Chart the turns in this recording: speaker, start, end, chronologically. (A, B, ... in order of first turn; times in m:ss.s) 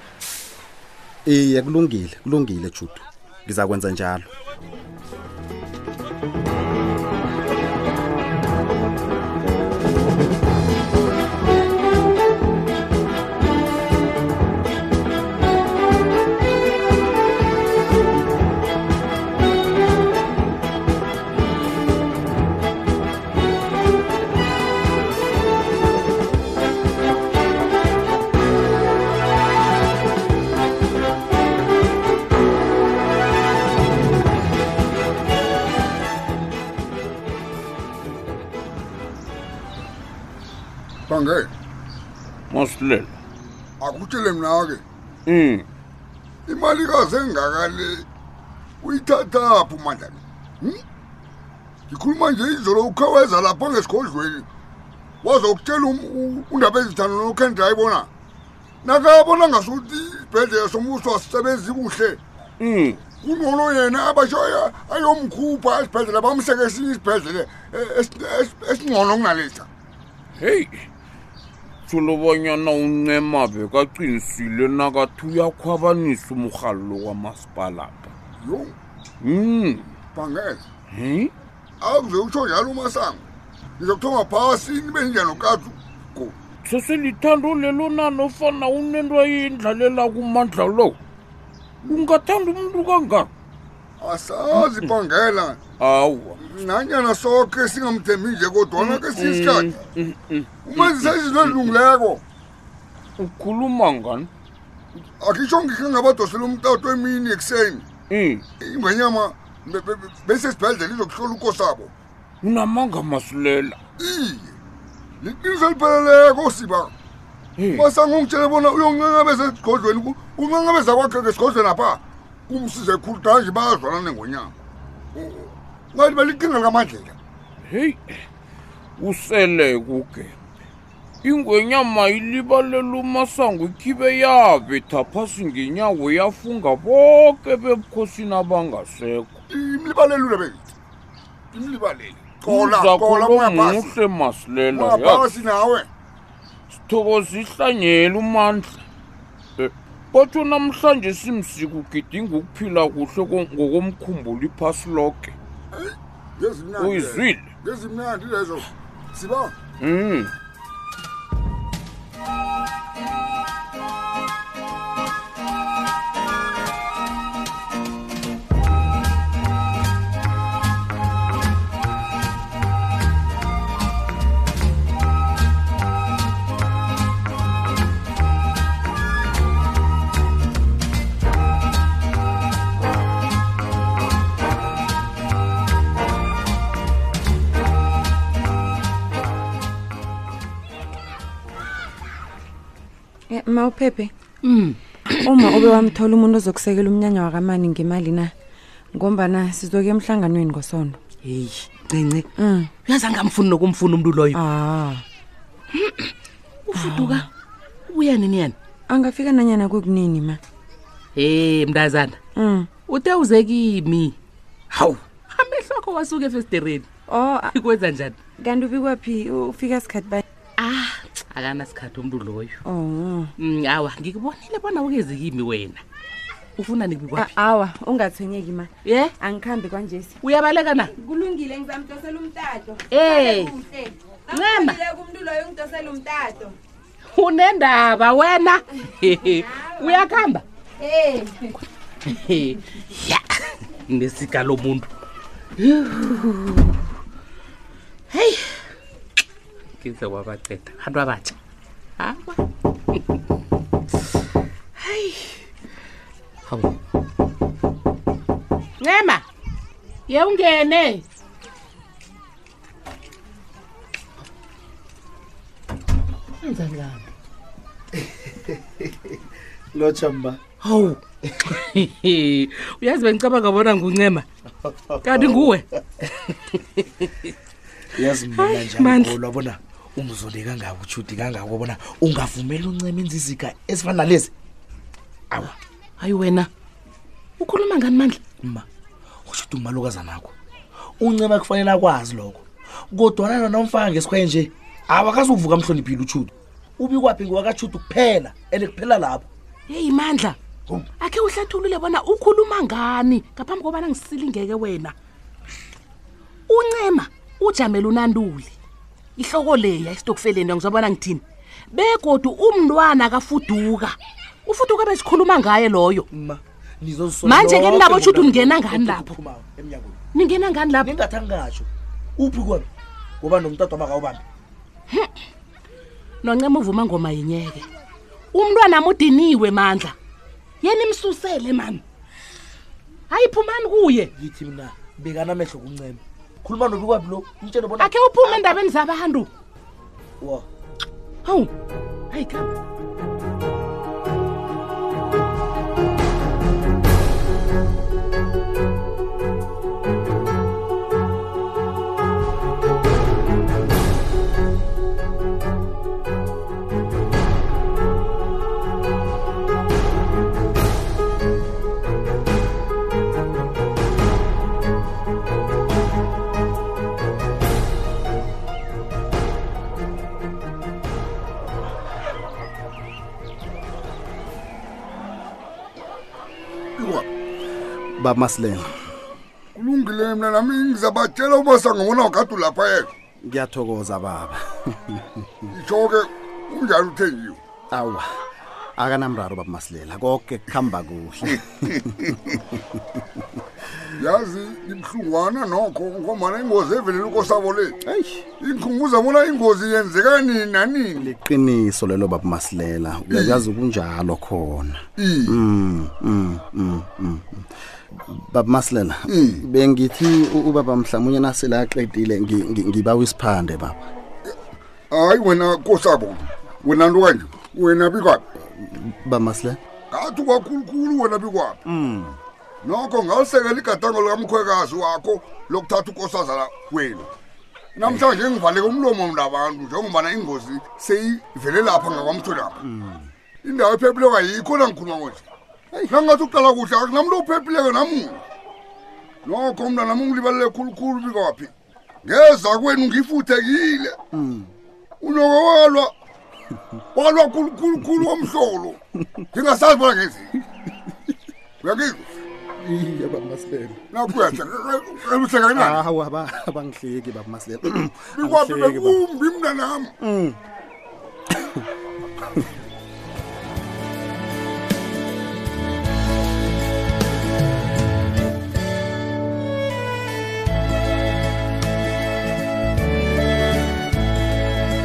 0:01.2-0:04.3 A
0:41.1-0:41.5 B
0:42.5-0:43.2 C
0:43.8-0:44.8 B
0:45.3-0:45.6 C
0:46.5-0:48.0 B
0:48.8-0:50.8 B
0:51.9-0:54.5 B
0:55.2-0:58.1 B
0:58.8-1:02.2 B
1:02.6-1:03.0 C
1:03.2-1:09.7 B
1:10.4-1:10.9 C
1:11.8-1:18.1 C
1:18.4-1:18.7 B
1:19.2-1:19.9 C
1:20.1-1:20.6 B
1:20.9-1:21.3 C
1:21.8-1:23.2 B
1:23.8-1:26.4 B
1:26.6-1:31.0 C
1:31.8-1:32.1 B
1:31.9-1:33.3 C
1:34.0-1:35.6 B
1:34.5-1:34.9 C
1:35.8-1:36.4 C
1:36.4-1:39.7 B
1:38.8-1:41.8 C
1:40.6-1:42.2 B
1:43.2-1:44.3 C
1:45.2-1:47.9 B
1:48.1-1:48.4 C
1:48.6-1:51.9 B
1:52.4-1:53.8 C
1:54.0-1:54.5 B
1:55.2-1:56.9 B
1:57.6-1:57.9 C
1:57.7-2:04.5 B
2:05.1-2:07.2 B
2:07.7-2:08.2 C
2:09.0-2:10.4 C
2:11.2-2:19.4 C
2:19.5-2:20.6 B
2:21.5-2:23.9 B
2:22.4-2:25.3 C
2:24.7-2:25.9 B
2:26.7-2:28.8 C
2:29.6-2:35.3 C
2:35.7-2:39.5 B
2:36.8-2:37.4 C
2:39.8-2:40.3 C
3:13.3-3:14.1 D
3:14.4-3:15.3 E
3:15.2-3:18.3 D
3:18.9-3:21.0 D
3:21.2-3:22.3 E
3:22.4-3:22.7 D
3:22.8-3:24.4 E
3:24.3-3:25.0 D
3:25.7-3:26.1 E
3:26.6-3:27.3 E
3:26.7-3:27.2 D
3:27.9-3:28.6 E
3:28.9-3:30.4 D
3:31.1-3:32.2 E
3:32.4-3:32.7 D
3:32.9-3:34.2 E
3:34.7-3:36.9 E
3:37.1-3:37.6 D
3:37.5-3:38.2 E
3:38.4-3:40.2 D
3:40.6-3:42.6 E
3:42.6-3:43.3 D
3:43.4-3:45.8 E
3:46.6-3:47.3 E
3:47.1-3:50.2 D
3:48.8-3:49.1 E
3:50.2-3:50.9 E
3:50.9-3:56.5 D
3:52.9-3:53.6 E
3:54.3-3:54.8 E
3:57.1-4:00.4 E
4:00.8-4:01.5 D
4:02.0-4:04.9 E
4:05.6-4:06.7 E
4:08.1-4:08.6 E
4:09.8-4:11.4 E
4:12.0-4:12.4 E
4:14.8-4:15.4 E
4:18.8-4:19.2 E
4:20.1-4:21.0 E
4:26.4-4:27.1 E
4:28.0-4:29.2 F
4:29.7-4:30.4 F
4:30.6-4:34.2 E
4:34.7-4:35.6 F
4:35.0-4:35.6 E
4:36.3-4:37.1 E
4:38.0-4:44.3 F
4:38.3-4:39.1 E
4:46.0-4:46.5 E
4:47.4-4:48.2 E
4:49.2-4:50.3 F
4:51.0-4:59.3 F
4:59.7-5:00.4 E
5:01.0-5:04.9 E
5:06.5-5:08.5 E
5:09.2-5:16.0 E
5:16.1-5:20.0 F
5:17.2-5:19.1 E
5:20.1-5:20.9 E
5:20.8-5:22.7 F
5:23.2-5:24.2 F
5:26.2-5:27.7 E
5:28.3-5:30.0 E
5:30.6-5:31.8 E
5:33.1-5:34.1 E
5:34.2-5:38.5 F
5:37.8-5:39.3 E
5:40.2-5:40.4 F
5:41.2-5:41.5 E
5:42.1-5:42.5 E
6:16.8-6:17.1 B
6:18.0-6:18.6 A
6:19.5-6:22.9 B
6:23.2-6:25.0 A
6:25.5-6:27.4 B
6:27.7-6:28.0 A
6:28.8-6:32.8 A
6:34.0-6:37.8 B
6:37.8-6:38.2 A
6:38.4-6:41.1 B
6:41.0-6:47.4 A
6:43.1-6:43.4 B
6:45.0-6:45.4 B
6:48.0-6:53.8 A
6:49.1-6:49.4 B
6:54.9-6:58.2 B
6:58.4-6:59.6 A
6:59.9-7:01.6 B
7:01.6-7:02.2 A
7:02.6-7:07.1 B
7:07.8-7:12.6 B
7:12.6-7:13.1 A
7:13.4-7:15.2 B
7:15.7-7:16.0 A
7:15.9-7:18.2 B
7:19.2-7:21.5 B
7:22.0-7:24.0 B
7:24.1-7:24.5 A
7:25.0-7:25.9 B
7:26.9-7:28.8 B
7:29.3-7:30.3 B
7:31.6-7:32.0 B
7:32.6-7:34.4 A
7:33.9-7:35.8 B
7:35.5-7:39.0 A
7:38.1-7:39.9 B
7:40.0-7:40.4 A